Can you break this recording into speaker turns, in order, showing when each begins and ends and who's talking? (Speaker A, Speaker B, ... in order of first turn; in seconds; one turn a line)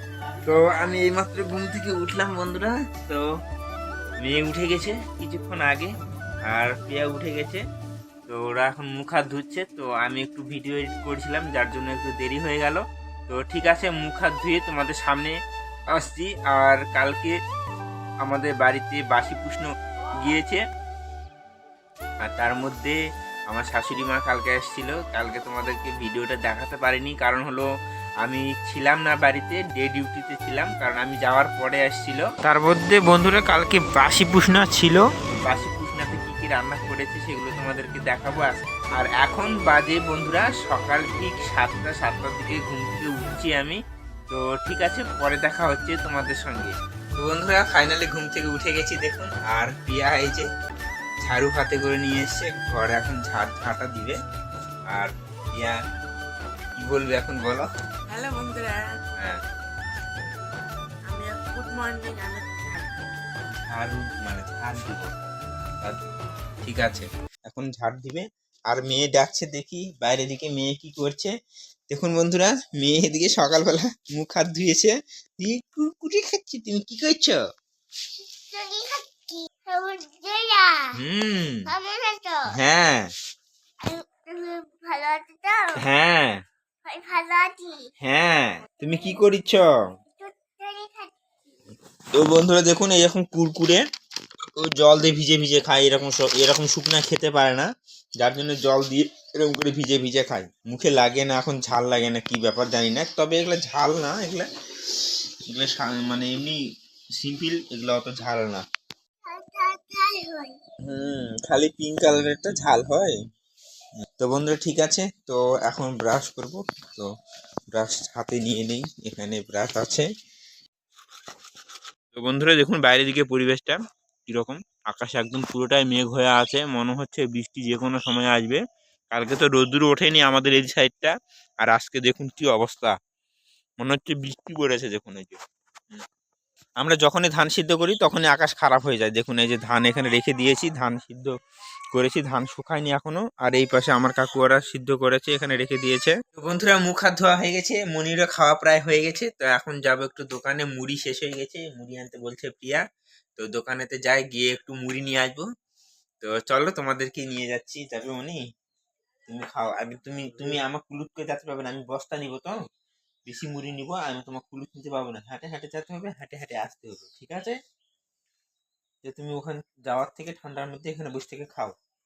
Speaker A: 0.5-3.2
Speaker A: 4.2-5.9
Speaker A: 6.5-7.6
Speaker A: 8.3-15.3
Speaker A: 15.9-17.3
Speaker A: 18.2-20.6
Speaker A: 22.2-23.0
Speaker A: 23.5-27.7
Speaker A: 28.2-50.5
Speaker A: 51.2-54.1
Speaker A: 54.9-55.8
Speaker A: 56.8-57.6
Speaker B: 58.1-59.0
Speaker B: 61.1-63.0
Speaker A: 63.6-65.1
Speaker A: 66.6-71.3
Speaker A: 71.9-77.4
Speaker C: 78.2-80.9
Speaker A: 81.0-81.7
Speaker C: 81.7-82.4
Speaker A: 82.5-83.1
Speaker C: 83.8-85.6
Speaker A: 85.8-86.4
Speaker C: 86.8-87.8
Speaker A: 88.0-89.7
Speaker C: 88.8-89.2
Speaker C: 90.2-91.1
Speaker A: 92.1-93.8
Speaker A: 94.6-97.7
Speaker A: 98.2-104.5
Speaker A: 105.5-106.6
Speaker A: 107.2-108.6
Speaker C: 109.3-110.5
Speaker A: 110.8-113.2
Speaker A: 114.2-117.1
Speaker A: 117.7-120.0
Speaker A: 122.1-128.6
Speaker A: 129.1-132.9
Speaker A: 133.8-135.4
Speaker A: 136.8-141.3
Speaker A: 141.9-152.8
Speaker A: 153.4-155.4
Speaker A: 156.2-158.4
Speaker A: 159.3-162.6
Speaker A: 163.2-167.6
Speaker A: 169.0-171.8